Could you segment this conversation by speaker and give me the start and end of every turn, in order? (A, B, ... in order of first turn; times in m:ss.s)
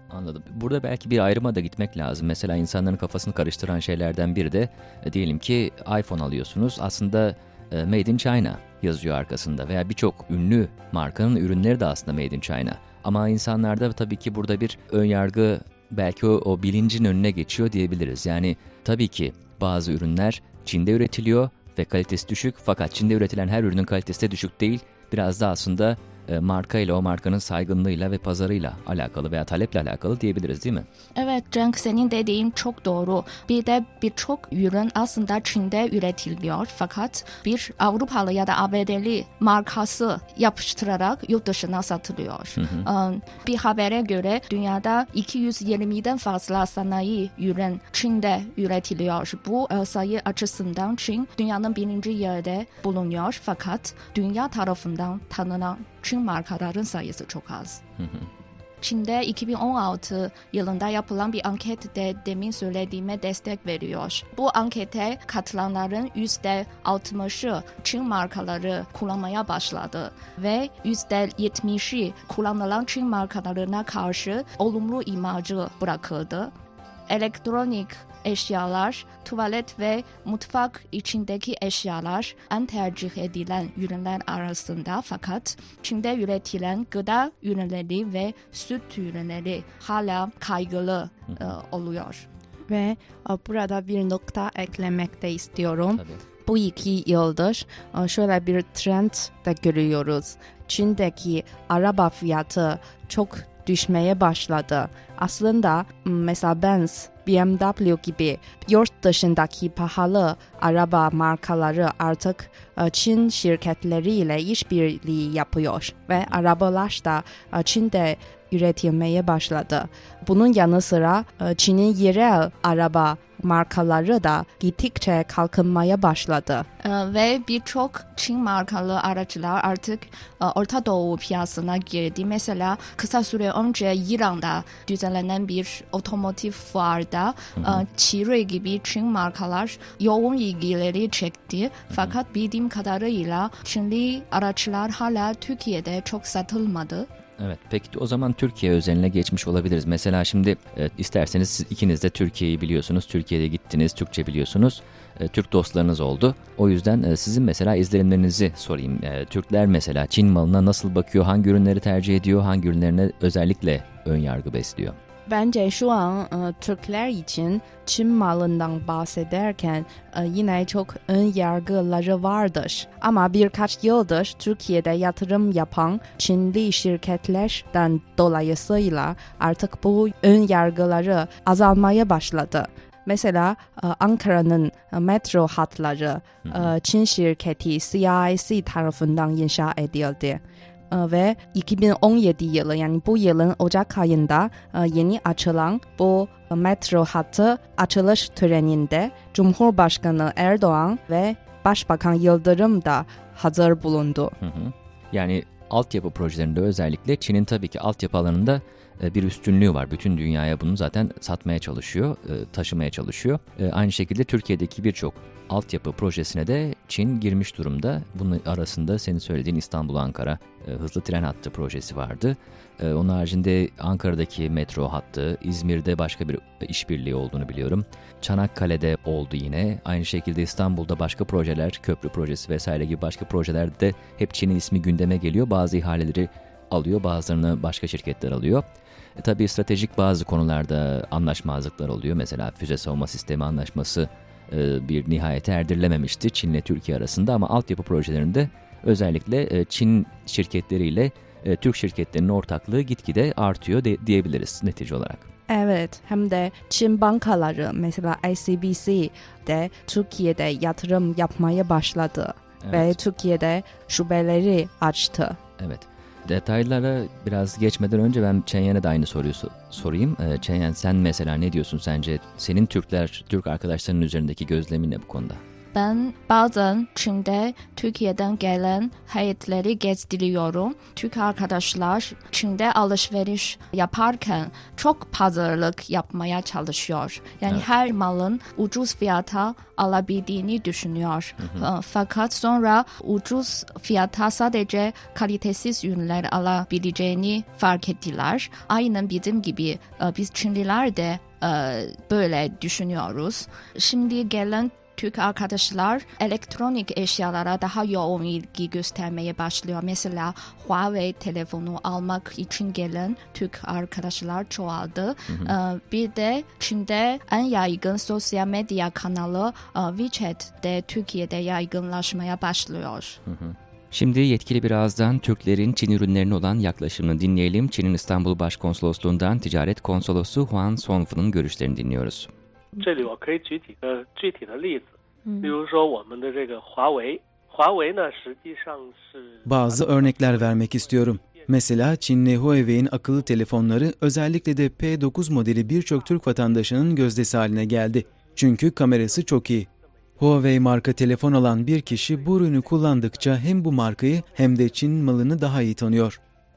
0:00.1-0:30.9 A
0:31.2-0:57.8 B
0:42.6-0:42.8 A
0:58.0-0:58.3 A
0:58.8-1:16.5 B
1:17.1-1:32.3 B
1:32.7-2:06.6 C
1:35.9-1:36.2 A
2:06.8-2:27.1 B
2:27.4-2:45.0 A
2:45.3-3:24.4 C
3:06.4-3:06.7 A
3:24.4-3:58.7 A
3:59.2-4:15.3 A
4:15.5-4:25.4 C
4:22.6-4:23.0 A
4:25.6-4:35.4 A
4:35.7-5:23.2 B
4:51.4-4:51.7 A
5:23.3-5:32.3 A
5:32.8-5:34.9 D
5:35.4-5:41.5 D
5:39.4-5:49.7 E
5:50.2-5:56.2 E